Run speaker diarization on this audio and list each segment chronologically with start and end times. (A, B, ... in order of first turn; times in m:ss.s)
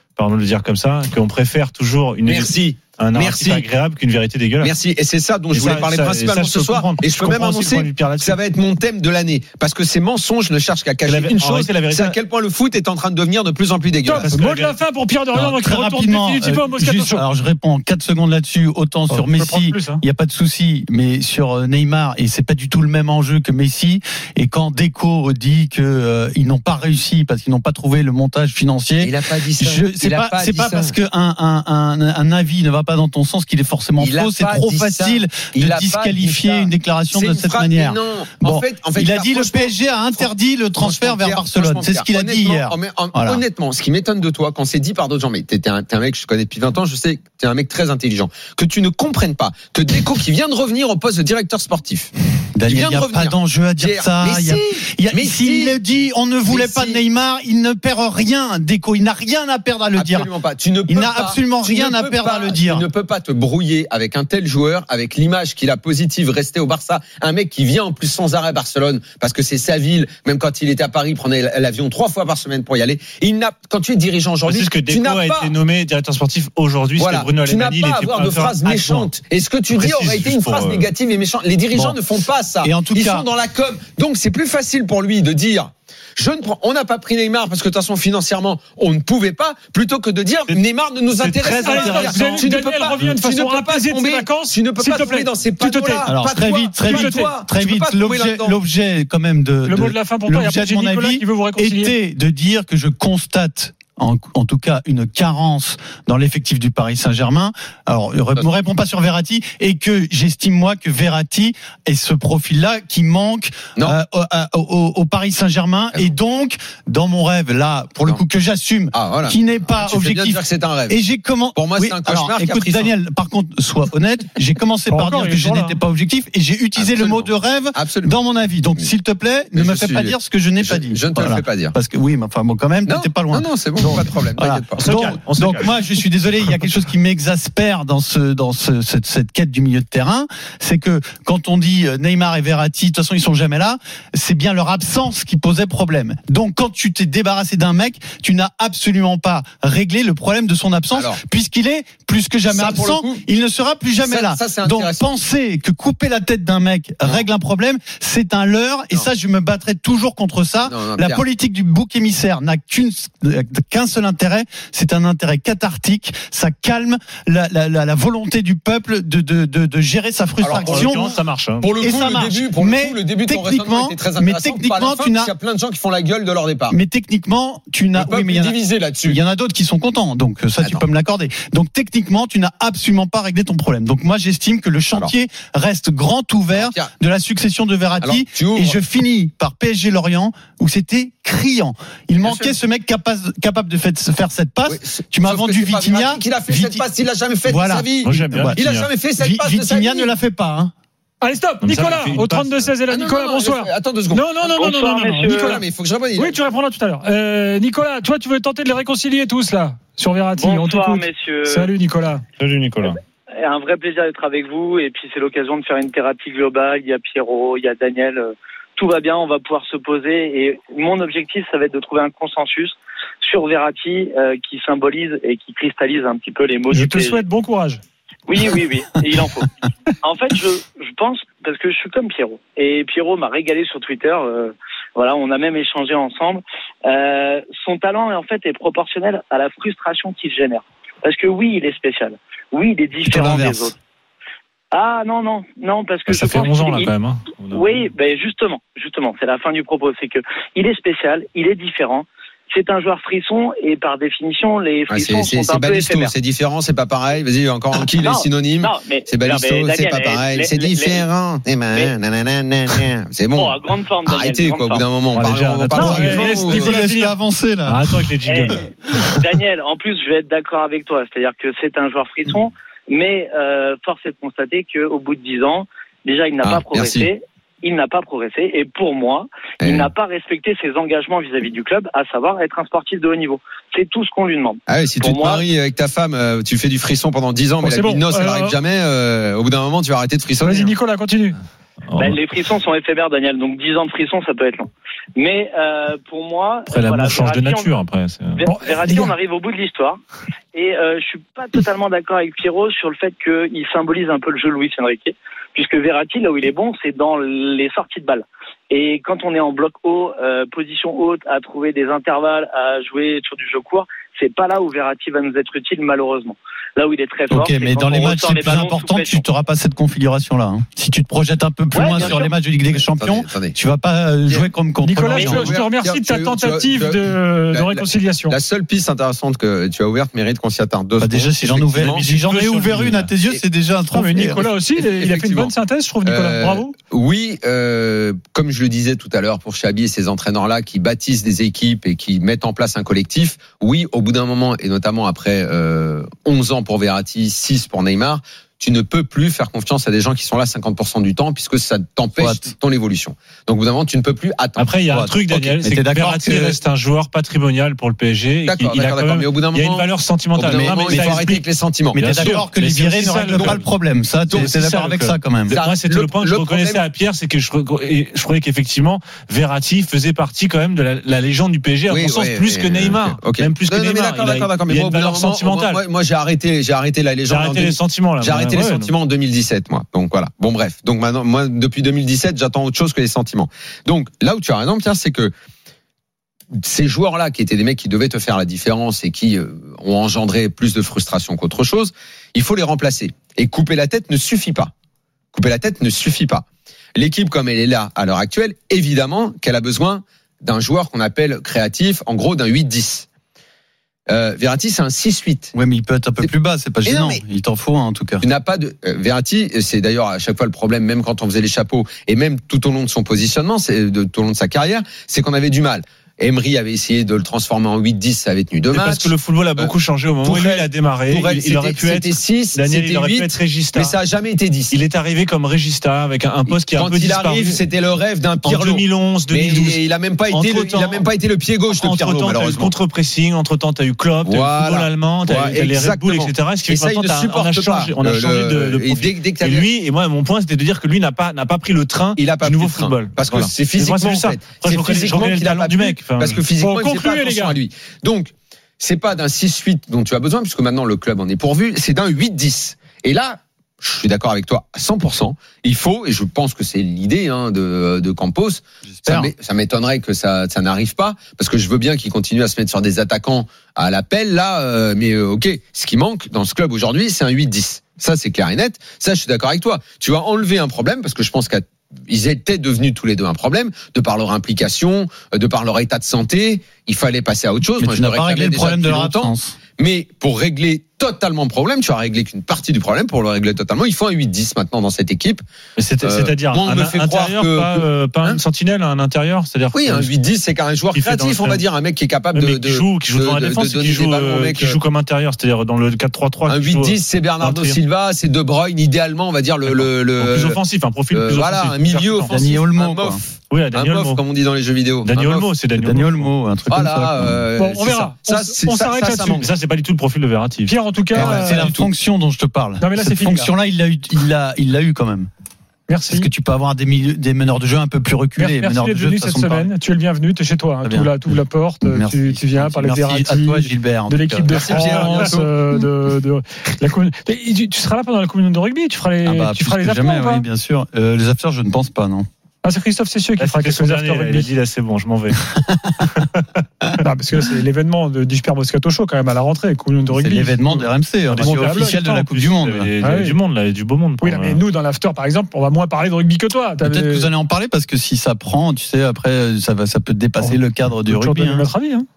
0:00.2-0:04.7 A
0:02.2-0:03.6 B
0:04.6-0:14.3 B
0:05.5-0:08.4 A
0:11.0-0:12.2 A
0:14.0-0:17.2 C
0:14.2-0:14.7 A
0:15.3-0:43.4 D
0:19.1-0:20.0 C
0:29.0-0:31.0 B
0:34.0-0:52.1 B
0:52.6-1:00.3 D
0:52.6-0:55.8 B
0:56.5-0:57.0 B
1:00.0-1:15.5 B
1:00.9-1:02.8 D
1:14.4-1:19.1 A
1:17.0-1:38.6 B
1:19.7-1:20.9 A
1:21.7-1:22.0 D
1:22.6-1:23.3 D
1:30.5-1:32.3 A
1:31.4-1:36.2 C
1:31.7-1:32.4 D
1:36.0-2:51.2 D
1:36.8-1:37.4 C
1:39.6-1:42.0 C
1:58.9-2:01.0 B
2:01.5-2:02.9 B
2:04.9-2:05.8 C
2:06.8-2:08.2 B
2:09.5-2:11.8 B
2:12.8-2:14.9 B
2:14.8-2:15.7 A
2:30.9-2:31.2 B
2:32.5-2:33.2 B
2:34.0-2:35.1 B
2:40.6-2:41.2 B
2:50.4-2:50.9 B
2:50.5-2:51.7 A
2:51.6-2:56.8 B
2:51.8-2:55.3 D
2:56.7-3:16.8 D
2:57.9-2:59.2 B
3:06.5-3:06.9 B
3:08.0-3:08.8 B
3:12.2-3:12.6 B
3:14.7-3:20.1 B
3:17.4-3:20.7 D
3:18.0-3:18.9 A
3:21.2-3:25.6 C
3:21.6-3:22.7 A
3:22.9-3:26.4 B
3:24.6-3:25.6 E
3:26.1-3:32.2 C
3:30.4-3:31.7 E
3:32.4-3:33.0 A
3:32.8-3:47.2 E
3:46.7-3:47.8 C
3:48.3-3:49.5 E
3:50.0-4:03.7 E
4:03.0-4:03.7 D
4:04.7-4:06.9 E
4:06.1-4:07.9 A
4:07.5-4:16.1 E
4:14.9-4:26.8 B
4:17.9-4:21.0 E
4:23.4-4:24.8 E
4:25.1-4:26.4 A
4:25.7-4:27.2 C
4:25.8-4:28.0 D
4:27.6-4:28.7 A
4:28.2-4:45.4 E
4:36.4-4:37.1 B
4:39.6-4:39.9 B
4:44.7-4:50.7 B
4:47.6-4:48.6 C
4:50.4-4:51.4 C
4:51.9-4:52.2 A
4:51.9-4:57.8 E
4:56.7-4:58.4 A
4:58.4-5:00.0 E
4:58.4-4:59.1 C
5:00.5-5:19.2 E
5:17.3-5:25.6 D
5:21.7-5:22.2 E
5:21.8-5:23.6 B
5:24.2-5:32.0 B
5:24.8-5:28.4 C
5:31.0-5:34.5 D
5:31.7-5:33.1 A
5:33.9-5:36.8 C
5:34.7-5:54.7 B
5:52.2-5:52.5 D
5:54.6-6:01.4 A
5:54.9-5:56.6 D
5:58.4-6:02.4 B
6:00.8-6:01.2 D
6:01.9-6:05.6 D
6:02.0-6:03.7 A
6:03.0-6:03.6 B
6:04.3-6:04.6 B
6:04.3-6:15.8 A
6:05.5-6:06.8 B
6:11.9-6:25.3 B
6:17.3-6:18.9 A
6:26.6-6:34.7 B
6:35.3-6:36.4 B
6:37.0-6:43.1 B
6:44.1-6:45.5 B
6:45.5-6:48.2 D
6:46.8-6:47.2 B
6:48.2-7:04.8 B
6:58.7-7:04.0 A
7:04.7-7:07.6 A
7:06.5-7:12.7 B
7:08.4-7:11.1 A
7:11.7-7:26.4 A
7:14.2-7:19.7 B
7:22.2-8:05.4 B
7:26.5-7:27.6 C
7:38.8-7:39.3 D
7:57.8-7:59.6 D
8:05.8-8:10.1 A
8:06.0-8:08.4 B
8:09.7-8:14.8 B
8:10.9-8:11.6 A
8:12.3-8:17.8 A
8:16.5-8:25.5 B
8:19.6-8:22.4 A
8:22.3-8:23.2 D
8:23.5-8:24.2 A
8:25.0-8:26.3 A
8:25.7-8:27.4 D
8:26.7-8:29.5 B
8:27.5-8:29.5 C
8:29.4-8:30.8 A
8:30.6-8:31.7 C
8:31.1-8:31.9 B
8:31.1-8:35.3 D
8:32.8-8:33.5 C
8:35.9-8:36.3 C
8:36.0-8:39.7 D
8:38.4-8:50.4 C
8:40.8-8:41.2 D
8:41.8-8:44.8 D
8:44.5-8:45.5 B
8:49.2-8:52.2 D
8:52.6-8:54.5 C
8:53.4-8:55.4 A
8:56.0-8:56.3 A
8:57.0-9:02.3 C
9:00.2-9:02.9 D
9:01.3-9:04.6 A
9:03.0-9:03.4 C
9:04.2-9:07.3 C
9:06.8-9:11.7 D
9:10.4-9:12.1 C